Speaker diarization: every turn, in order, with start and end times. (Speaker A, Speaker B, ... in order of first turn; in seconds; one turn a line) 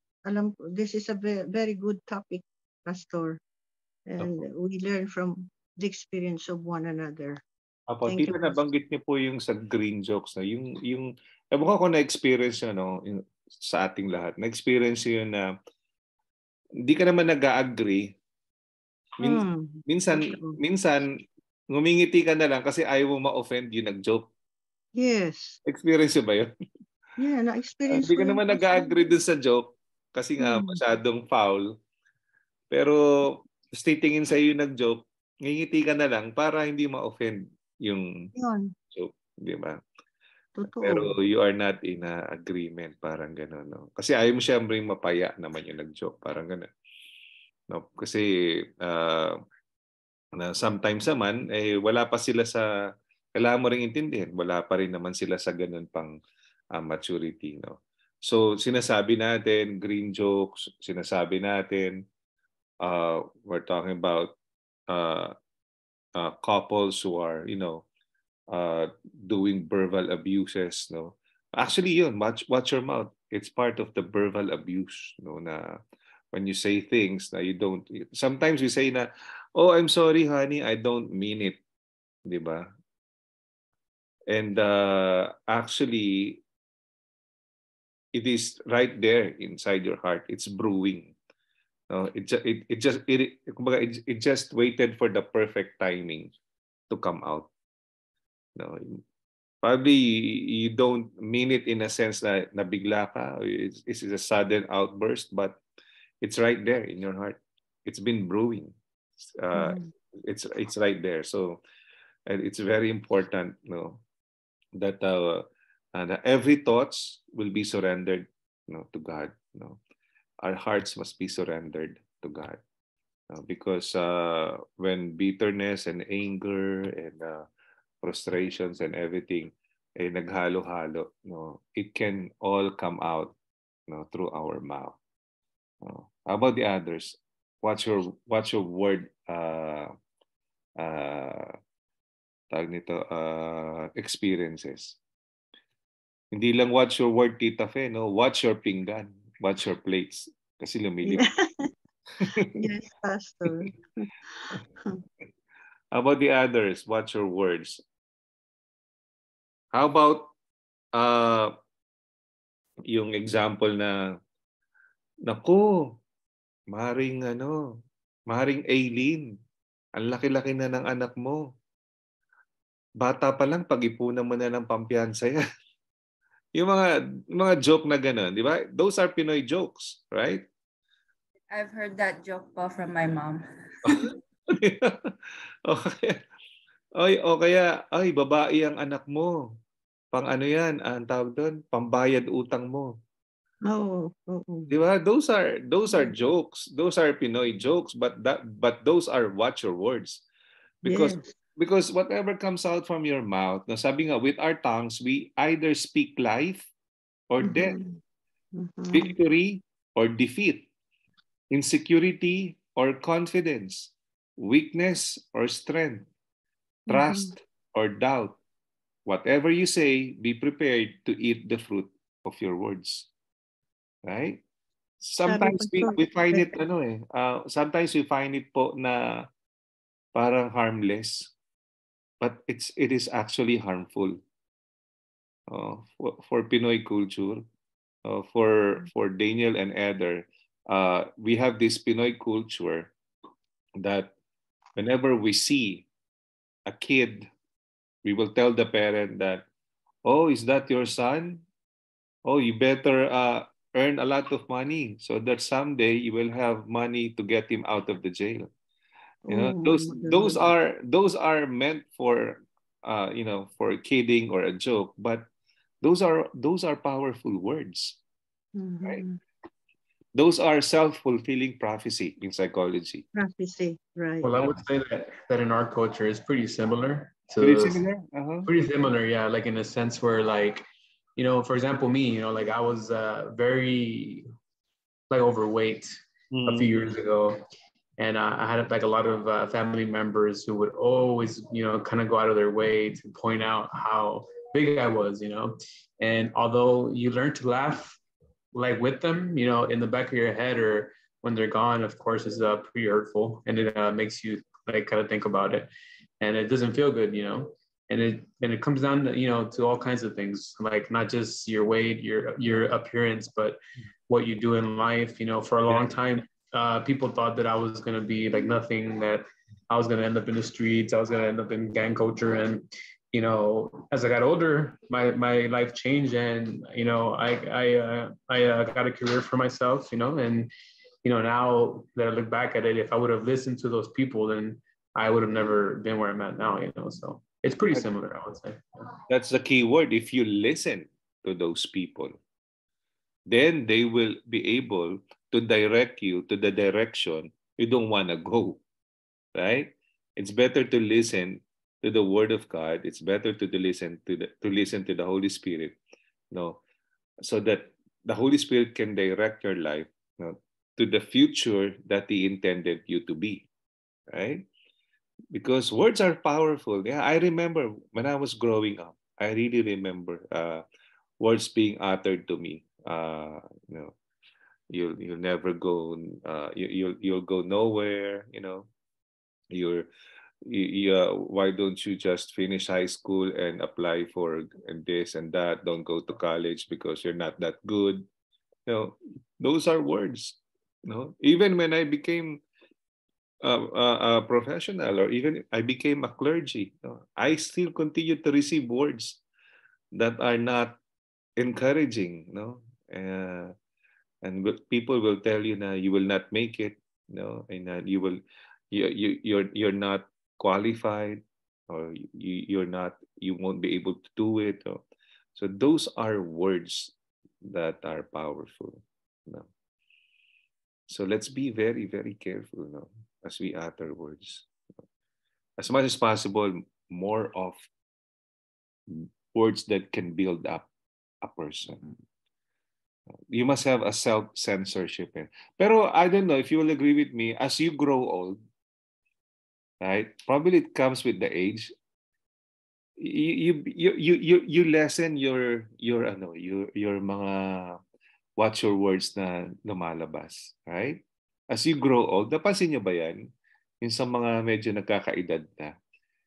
Speaker A: 0.3-3.4
Speaker A: 4.1-7.4
Speaker B: 7.9-15.5
Speaker A: 8.1-8.5
Speaker B: 16.8-18.1
Speaker A: 19.2-20.6
Speaker B: 19.2-21.2
Speaker B: 21.7-24.3
Speaker A: 25.0-25.6
Speaker B: 25.6-26.5
Speaker A: 27.2-29.1
Speaker B: 27.9-31.7
Speaker A: 30.4-30.8
Speaker B: 32.7-38.3
Speaker A: 38.4-38.7
Speaker B: 38.9-39.8
Speaker A: 40.5-41.1
Speaker B: 40.8-46.7
Speaker B: 47.7-49.4
Speaker B: 50.4-52.7
Speaker B: 53.3-56.1
Speaker B: 56.7-62.0
Speaker B: 62.8-64.3
Speaker B: 64.9-65.3
Speaker B: 66.2-67.8
Speaker B: 68.5-75.8
Speaker B: 76.3-81.6
Speaker B: 82.3-82.7
Speaker B: 84.3-86.4
Speaker B: 88.1-91.1
Speaker B: 91.9-96.3
Speaker B: 96.9-97.5
Speaker B: 98.5-99.0
Speaker B: 99.6-105.6
Speaker B: 106.2-111.6
Speaker A: 109.5-109.9
Speaker B: 112.3-114.0
Speaker B: 114.8-119.8
Speaker B: 120.4-122.6
Speaker B: 123.3-127.5
Speaker B: 128.0-133.3
Speaker B: 133.9-135.0
Speaker B: 135.8-139.9
Speaker B: 140.8-141.5
Speaker B: 142.5-145.0
Speaker B: 146.3-151.2
Speaker A: 151.0-151.7
Speaker B: 152.2-152.6
Speaker A: 152.6-154.1
Speaker B: 155.9-157.8
Speaker B: 159.7-160.3
Speaker B: 160.9-161.5
Speaker B: 162.9-163.9
Speaker B: 165.2-165.7
Speaker B: 166.7-167.6
Speaker B: 168.3-169.3
Speaker B: 170.0-171.4
Speaker B: 173.0-175.4
Speaker B: 176.5-180.4
Speaker C: 181.5-184.1
Speaker B: 184.5-185.1
Speaker B: 185.7-186.2
Speaker B: 187.0-189.5
Speaker B: 190.1-192.9
Speaker A: 193.7-194.8
Speaker B: 194.7-200.2
Speaker B: 200.8-206.7
Speaker A: 200.8-201.3
Speaker B: 207.3-207.7
Speaker A: 207.4-208.0
Speaker A: 208.5-209.1
Speaker B: 208.9-210.7
Speaker B: 211.5-216.1
Speaker A: 216.9-217.3
Speaker B: 216.9-218.4
Speaker B: 219.1-223.1
Speaker B: 224.0-224.4
Speaker B: 225.0-229.3
Speaker A: 225.2-226.5
Speaker B: 230.1-231.3
Speaker B: 232.2-234.2
Speaker B: 235.5-237.4
Speaker B: 238.0-242.9
Speaker B: 243.8-244.1
Speaker B: 244.8-245.8
Speaker B: 246.7-247.3
Speaker B: 248.0-249.4
Speaker B: 250.0-251.4
Speaker B: 252.2-258.5
Speaker A: 259.3-260.5
Speaker B: 259.3-265.2
Speaker B: 265.8-268.0
Speaker A: 268.5-269.2
Speaker B: 270.1-273.0
Speaker A: 273.1-274.3
Speaker D: 274.2-277.8
Speaker B: 277.4-278.5
Speaker D: 278.4-280.6
Speaker D: 281.2-284.2
Speaker D: 285.1-287.4
Speaker B: 286.3-286.9
Speaker D: 288.0-298.0
Speaker D: 298.5-330.5
Speaker D: 331.0-338.8
Speaker B: 339.1-342.1
Speaker B: 343.3-348.6
Speaker B: 349.3-355.8
Speaker B: 356.3-356.6
Speaker B: 357.2-363.5
Speaker B: 364.1-364.4
Speaker B: 365.3-370.6
Speaker B: 371.2-373.9
Speaker B: 374.7-378.7
Speaker B: 379.5-379.9
Speaker B: 380.4-388.1
Speaker B: 388.7-392.4
Speaker B: 393.4-399.2
Speaker B: 399.9-400.8
Speaker B: 401.4-403.5
Speaker B: 404.2-408.2
Speaker B: 408.7-414.8
Speaker B: 415.4-416.9
Speaker B: 417.4-419.5
Speaker B: 420.9-424.4
Speaker B: 425.6-427.6
Speaker B: 428.9-430.7
Speaker B: 431.2-431.9
Speaker B: 433.3-438.4
Speaker B: 439.8-441.7
Speaker B: 443.0-447.8
Speaker B: 448.4-451.0
Speaker B: 451.5-453.2
Speaker B: 453.8-455.7